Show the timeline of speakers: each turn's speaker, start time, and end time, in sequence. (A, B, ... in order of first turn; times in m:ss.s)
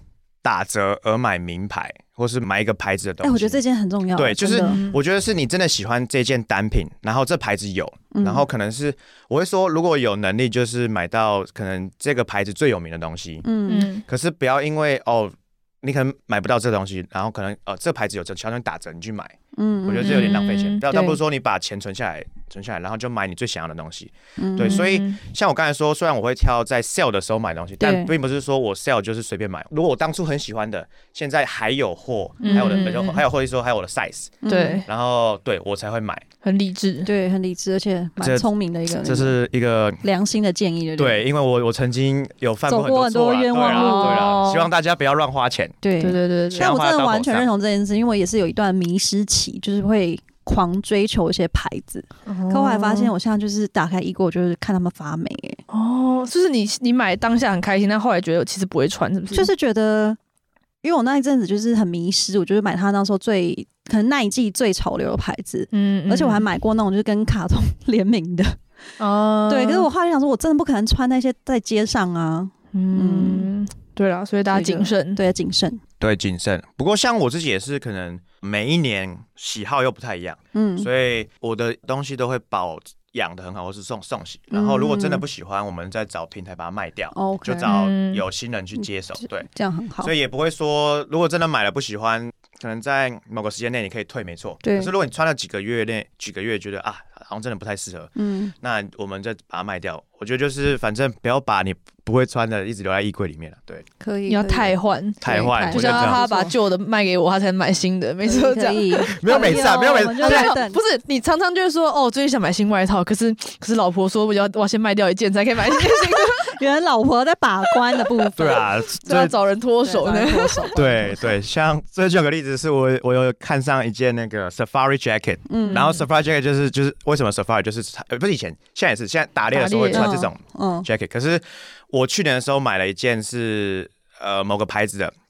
0:00.4-0:03.6 A
0:03.2-0:04.8 B
0:04.2-0:13.4 A
0:04.6-0:05.0 C
0:08.1-0:08.5 B
0:13.4-0:13.9 B
0:13.7-0:14.0 C
0:14.1-0:36.2 A
0:19.5-0:21.2 B
0:20.0-0:20.8 C
0:24.4-0:24.9 B
0:24.6-0:25.2 C
0:27.8-0:28.1 B
0:32.4-0:33.2 C
0:32.4-0:32.9 B
0:34.4-0:34.8 B
0:34.5-0:34.9 C
0:36.4-0:37.1 C
0:37.0-0:39.4 B
0:38.2-0:38.5 A
0:39.0-0:40.0 A
0:40.0-0:41.2 B
0:41.0-0:45.7 A
0:42.7-0:44.4 B
0:43.6-0:44.7 C
0:45.8-0:55.6 B
0:46.0-0:46.7 C
0:46.5-0:47.5 A
0:52.3-0:53.1 C
0:55.7-0:59.5 C
0:59.3-1:00.2 B
1:00.8-1:08.6 B
1:05.7-1:06.4 C
1:09.0-1:09.9 C
1:09.5-1:13.5 B
1:12.7-1:15.2 C
1:14.5-1:15.8 B
1:16.0-1:29.5 A
1:20.5-1:20.9 B
1:24.5-1:25.2 B
1:27.1-1:27.8 B
1:27.6-1:28.2 C
1:28.8-1:30.1 B
1:30.0-1:43.8 A
1:34.6-1:34.9 B
1:38.2-1:38.5 B
1:44.0-1:46.6 B
1:44.2-1:56.6 C
1:45.2-1:46.2 A
1:48.2-1:50.8 B
1:49.1-1:50.6 A
1:55.8-1:59.3 B
1:57.8-2:00.7 C
1:58.4-1:59.3 A
1:59.8-2:01.4 B
2:00.7-2:15.1 A
2:05.5-2:06.0 B
2:05.6-2:06.0 C
2:09.5-2:10.2 C
2:09.9-2:10.9 B